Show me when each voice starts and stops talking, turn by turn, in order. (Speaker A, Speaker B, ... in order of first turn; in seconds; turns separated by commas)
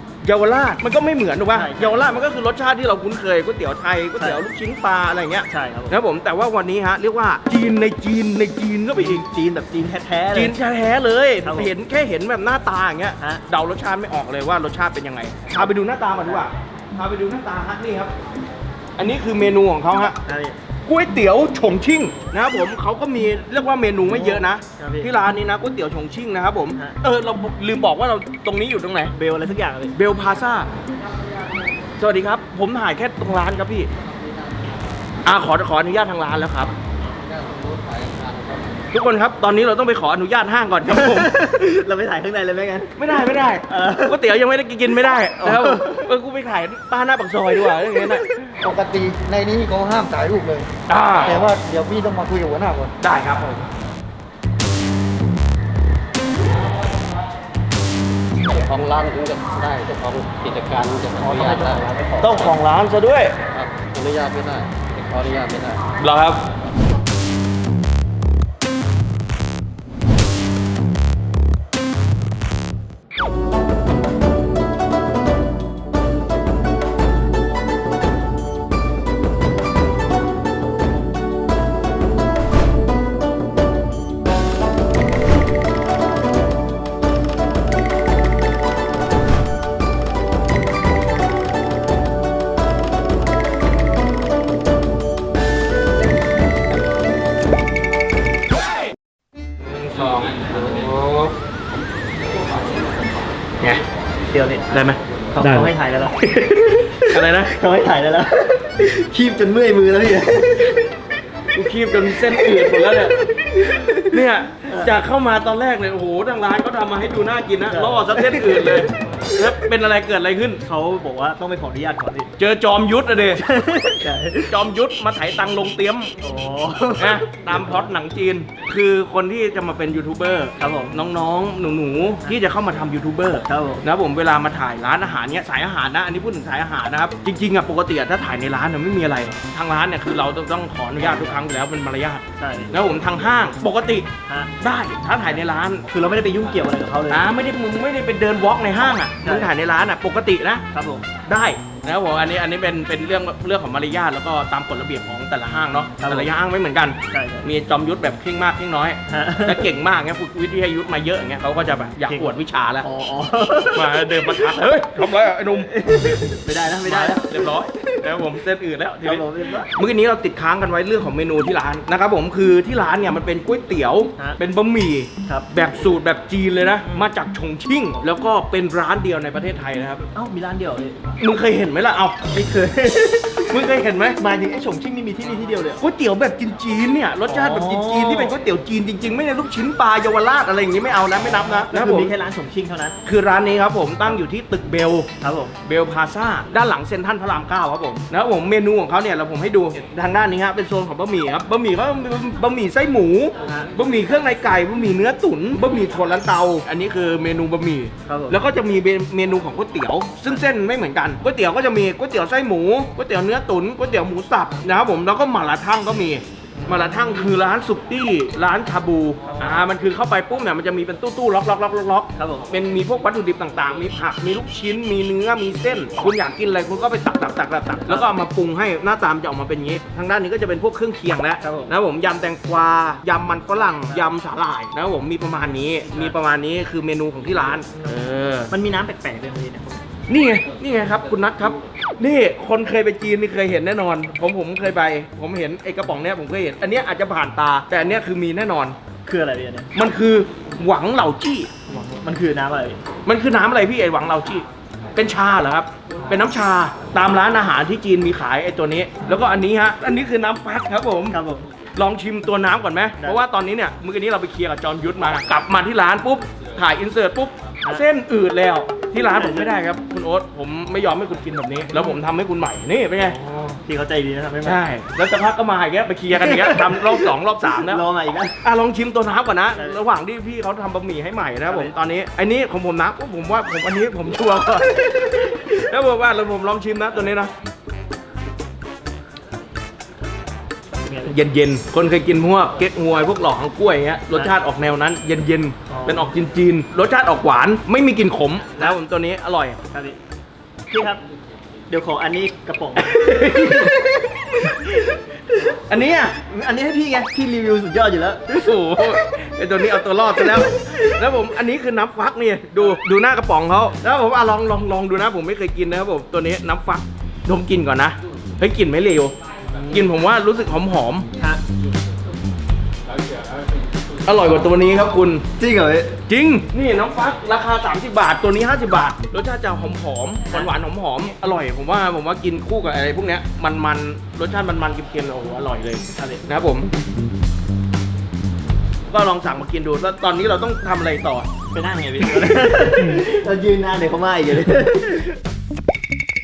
Speaker A: 0.2-9.3, Speaker B: 1.5-2.3, Speaker B: 5.5-6.0, Speaker B: 9.0-10.6, Speaker A: 10.3-18.1, Speaker B: 11.4-11.7, Speaker B: 16.2-16.5, Speaker A: 19.0-20.2, Speaker B: 20.2-20.6, Speaker A: 20.9-29.1, Speaker B: 24.1-25.1, Speaker B: 29.1-29.9, Speaker A: 29.9-30.7, Speaker A: 32.0-33.9, Speaker A: 35.2-36.7, Speaker C: 37.2-38.8, Speaker A: 38.9-41.3, Speaker B: 40.8-44.2, Speaker A: 43.0-48.6, Speaker B: 45.4-46.1, Speaker D: 48.6-50.7, Speaker A: 50.9-51.5, Speaker D: 51.3-52.9, Speaker A: 53.0-53.6, Speaker C: 58.4-61.8, Speaker B: 61.2-62.4, Speaker A: 62.2-63.4, Speaker C: 63.6-65.9, Speaker A: 65.9-66.5, Speaker A: 99.8-101.2, Speaker B: 104.3-104.7, Speaker A: 104.7-105.7, Speaker B: 105.3-110.8, Speaker A: 106.2-107.5, Speaker A: 111.5-120.6, Speaker B: 112.3-114.9, Speaker B: 117.6-118.9, Speaker B: 120.7-122.3, Speaker A: 122.4-123.4, Speaker B: 123.3-124.5, Speaker A: 124.5-126.1, Speaker B: 126.2-127.9, Speaker A: 127.0-145.8, Speaker B: 130.6-131.1, Speaker B: 133.5-133.8, Speaker B: 142.4-142.9, Speaker B: 144.3-144.5, Speaker B: 145.9-147.2, Speaker A: 147.1-150.6, Speaker B: 149.2-149.5, Speaker B: 150.7-151.1, Speaker A: 151.2-162.8, Speaker B: 156.0-156.3, Speaker B: 157.1-157.5, Speaker B: 159.1-159.7, Speaker B: 162.0-164.6, Speaker A: 163.7-165.8, Speaker B: 165.5-168.2, Speaker A: 166.6-180.0, Speaker B: 169.0-169.7, Speaker B: 180.1-181.0, Speaker A: 181.2-182.2, Speaker B: 182.3-185.8, Speaker A: 183.4-184.2, Speaker A: 185.8-192.1, Speaker B: 187.3-188.3, Speaker B: 191.4-193.0, Speaker A: 193.0-195.1, Speaker B: 195.2-195.6, Speaker A: 195.6-238.5, Speaker B: 208.1-208.4, Speaker B: 216.6-217.0, Speaker B: 219.2-219.6, Speaker B: 222.2-222.4, Speaker B: 231.4-231.7, Speaker B: 237.6-239.8, Speaker A: 240.1-248.8, Speaker B: 249.1-249.7, Speaker A: 249.7-251.5, Speaker B: 251.7-252.8, Speaker A: 253.0-254.4, Speaker A: 254.9-261.2, Speaker B: 261.1-261.5, Speaker A: 261.7-273.2, Speaker B: 269.1-269.5, Speaker B: 273.1-274.6, Speaker A: 274.4-277.8, Speaker B: 276.1-278.4, Speaker A: 278.4-287.3, Speaker B: 281.5-281.7, Speaker B: 290.8-291.1, Speaker A: 291.1-299.6, Speaker B: 295.7-296.1, Speaker B: 299.7-300.0, Speaker B: 300.7-301.0, Speaker B: 301.7-304.7, Speaker A: 302.8-306.2, Speaker B: 306.2-308.5, Speaker A: 308.3-319.1, Speaker B: 319.6-319.8, Speaker A: 319.7-321.1, Speaker B: 321.2-321.4, Speaker A: 324.0-325.2, Speaker B: 325.4-326.0, Speaker A: 326.1-336.7, Speaker B: 335.9-336.2, Speaker A: 338.9-341.3, Speaker B: 341.5-345.1